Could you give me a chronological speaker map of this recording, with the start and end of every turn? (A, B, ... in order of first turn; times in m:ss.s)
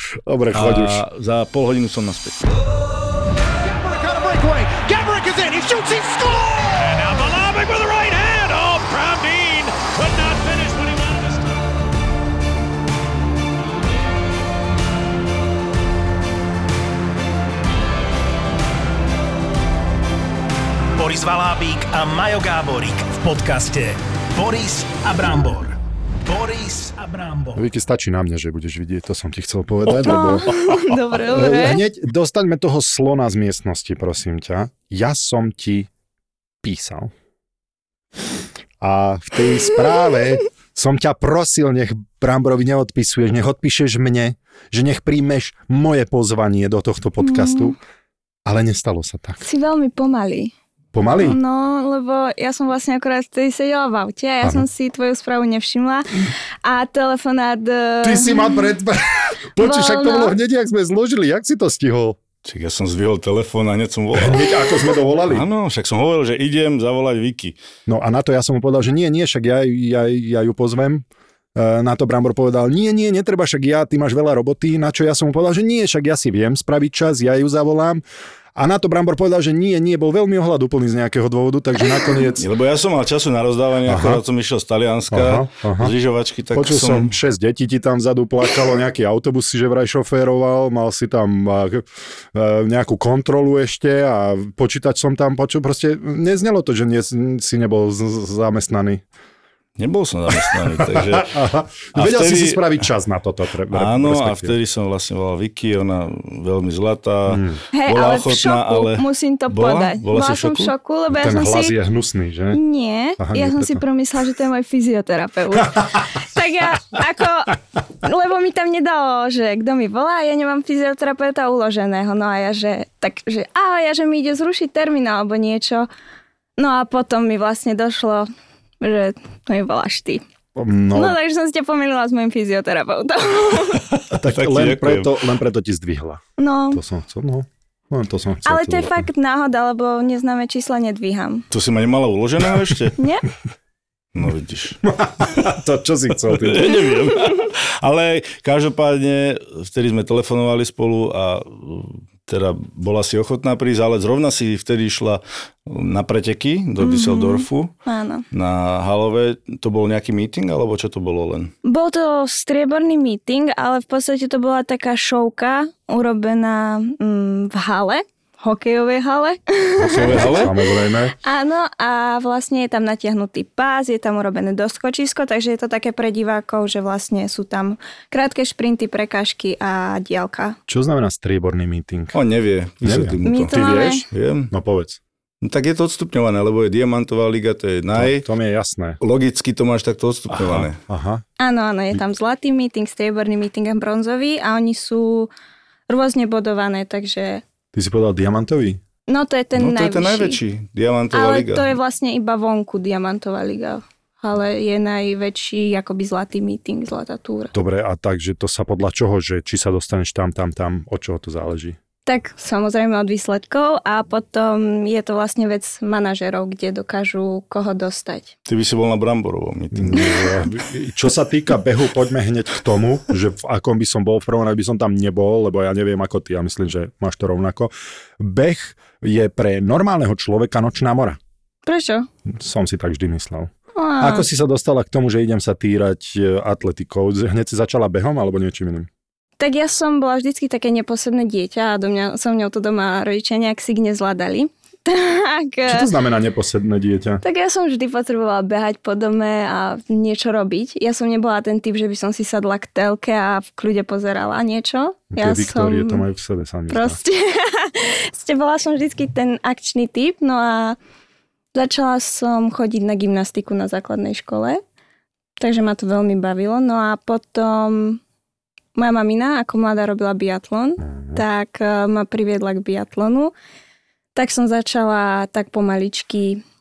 0:00.2-0:01.0 A
0:00.5-0:02.4 B
0:03.6-0:11.6 C
0:21.0-0:25.7 D
0:26.3-0:27.5 D
0:27.2-0:27.4 C
0:27.5-0:35.9 A
0:29.9-0:31.8 E
0:36.6-0:37.1 A
0:38.8-0:47.8 A
0:47.2-0:47.7 E
0:48.4-0:49.4 A
0:49.4-0:50.5 E
0:50.9-0:51.4 A
0:51.2-0:58.6 E
0:58.0-1:02.2 A
0:59.6-1:00.4 E
1:02.4-1:07.6 B
1:04.1-1:05.5 A
1:07.9-1:18.0 A
1:18.5-1:22.4 A
1:22.4-1:27.1 B
1:23.8-1:24.2 A
1:25.1-1:25.9 A
1:26.5-1:39.0 A
1:39.8-1:42.7 B
1:40.8-1:44.6 A
1:43.7-1:50.7 B
1:47.3-1:47.6 A
1:47.7-1:51.7 E
1:51.1-1:52.6 A
1:52.5-2:05.9 E
1:53.2-1:53.8 A
2:06.6-2:08.2 E
2:08.8-2:10.2 E
2:10.6-2:11.2 A
2:10.9-2:13.8 E
2:14.1-2:19.0 A
2:14.3-2:15.2 B
2:16.4-2:16.8 E
2:18.4-2:21.4 E
2:21.5-2:23.0 B
2:23.0-2:23.2 E
2:24.1-2:25.5 B
2:24.8-2:26.8 A
2:26.2-2:37.7 B
2:36.8-2:38.2 E
2:38.3-2:41.5 B
2:41.6-2:50.5 E
2:49.8-2:50.5 B
2:49.9-2:51.1 A
2:51.2-3:00.6 E
3:00.7-3:02.2 A
3:02.1-3:03.6 B
3:02.8-3:05.0 A
3:03.2-3:04.0 E
3:04.1-3:04.5 B
3:05.4-3:08.2 B
3:08.0-3:09.0 A
3:09.0-3:10.8 B
3:10.3-3:11.2 A
3:11.4-3:15.3 E
3:15.9-3:17.4 E
3:17.7-3:18.8 A
3:19.1-3:20.4 E
3:19.6-3:21.7 B
3:21.1-3:27.5 E
3:27.5-3:31.8 A
3:32.1-3:38.3 E
3:38.4-3:40.3 B
3:39.7-3:51.2 A
3:51.6-3:52.1 E
3:52.3-3:58.9 A
3:53.7-3:54.2 E
3:59.4-4:05.9 E
4:05.7-4:07.2 A
4:07.2-4:16.0 E
4:15.1-4:17.0 A
4:16.7-4:20.8 E
4:21.5-4:24.6 E
4:25.4-4:28.0 E
4:28.7-4:33.3 E
4:30.8-4:31.2 A
4:34.1-4:36.4 E